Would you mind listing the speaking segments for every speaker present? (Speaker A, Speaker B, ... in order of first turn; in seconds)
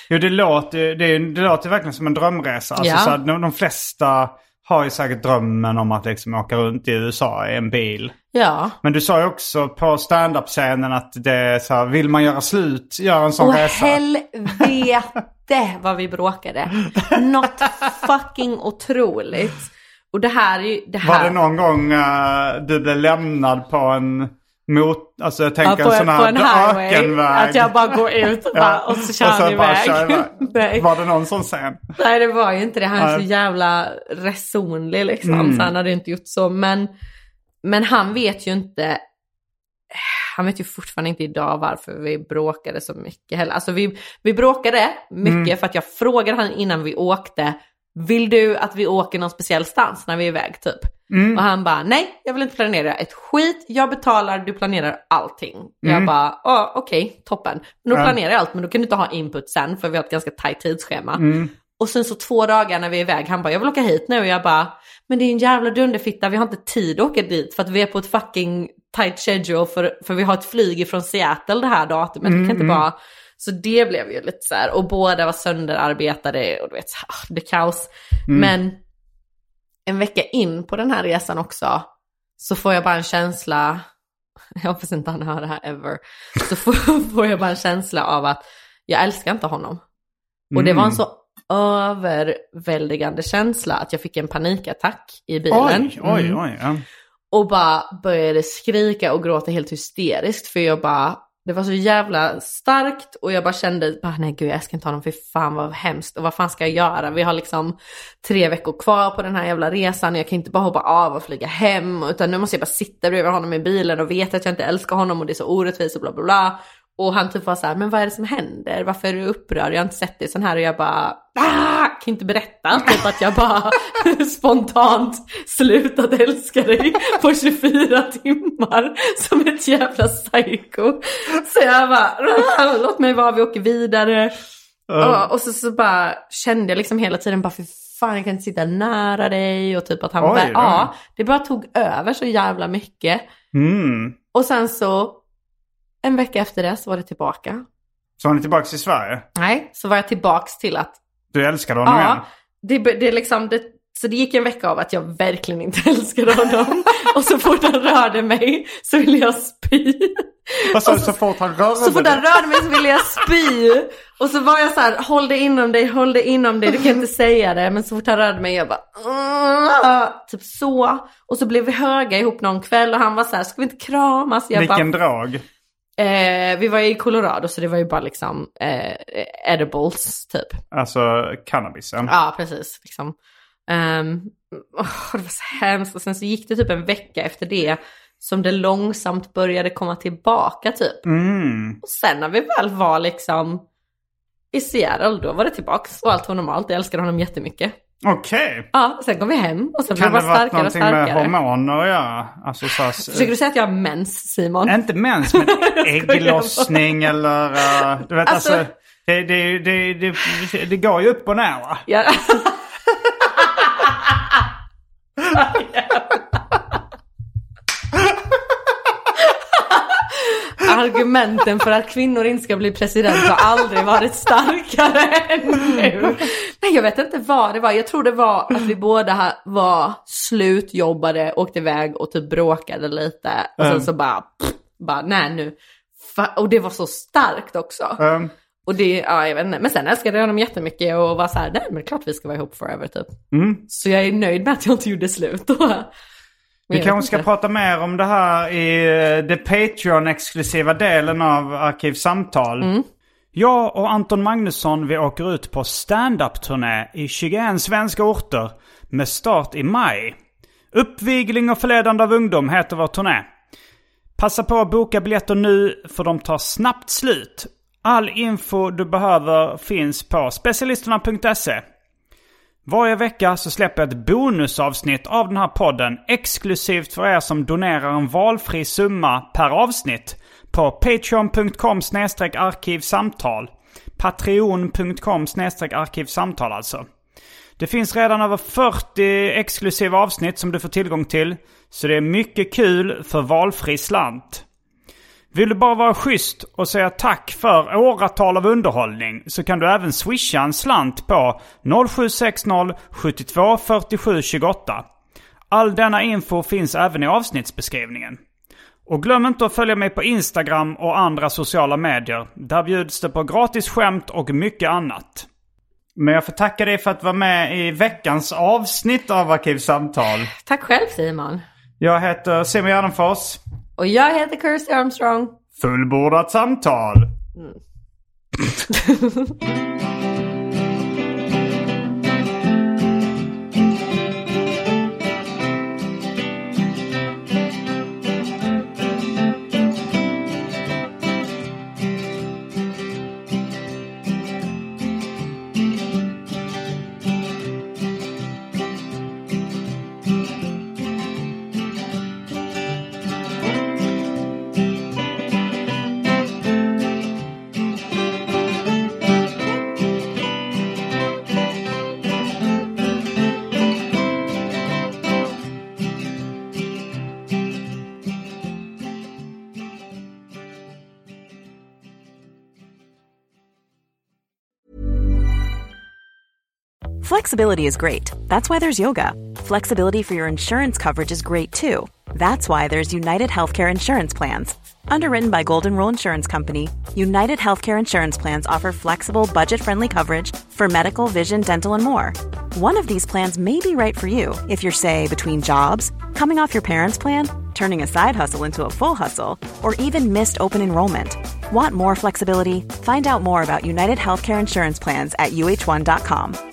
Speaker A: 0.1-8.1, 8.8-14.7, 21.0-31.9, 33.0-33.2, 35.2-35.7, 45.2-45.5, 51.1-51.4, 55.8-56.1, 61.2-61.5, 72.2-72.8, 90.5-91.0, 95.5-96.8, 134.9-135.3, 140.2-140.9, 143.5-144.2, 148.2-149.3, 151.3-152.2, 160.7-162.8, 174.5-175.4, 180.7-182.1, 191.0-191.8, 198.0-198.7, 199.9-203.3, 204.7-211.8, 233.6-233.9, 238.0-238.3, 243.3-243.6, 246.7-252.7, 253.3-260.2, 260.7-263.3, 264.2-271.6, 272.6-286.9, 287.6-294.4, 295.3-304.9, 305.5-308.2, 308.9-315.3, 315.9-320.3, 321.8-323.4, 325.6-327.1
Speaker B: 2.8-3.2, 8.3-8.8, 13.4-21.4, 25.6-30.9, 32.0-36.9, 37.6-39.0, 39.9-61.2, 61.8-78.8, 79.9-81.9, 82.4-83.8, 84.6-89.8, 90.5-96.4, 97.3-134.4, 135.0-143.2, 144.3-145.2, 146.0-147.6, 149.3-151.0, 151.8-161.1, 161.8-174.9, 176.0-180.6, 182.0-183.1, 183.7-191.0, 191.8-193.6, 194.5-197.7, 198.7-201.3, 202.9-207.1, 207.6-208.6, 211.9-212.6, 215.3-216.2, 219.2-238.0, 238.7-245.9, 246.7-247.2, 252.6-252.8, 320.4-321.4, 323.8-325.4, 328.7-329.3
Speaker C: 377.0-406.4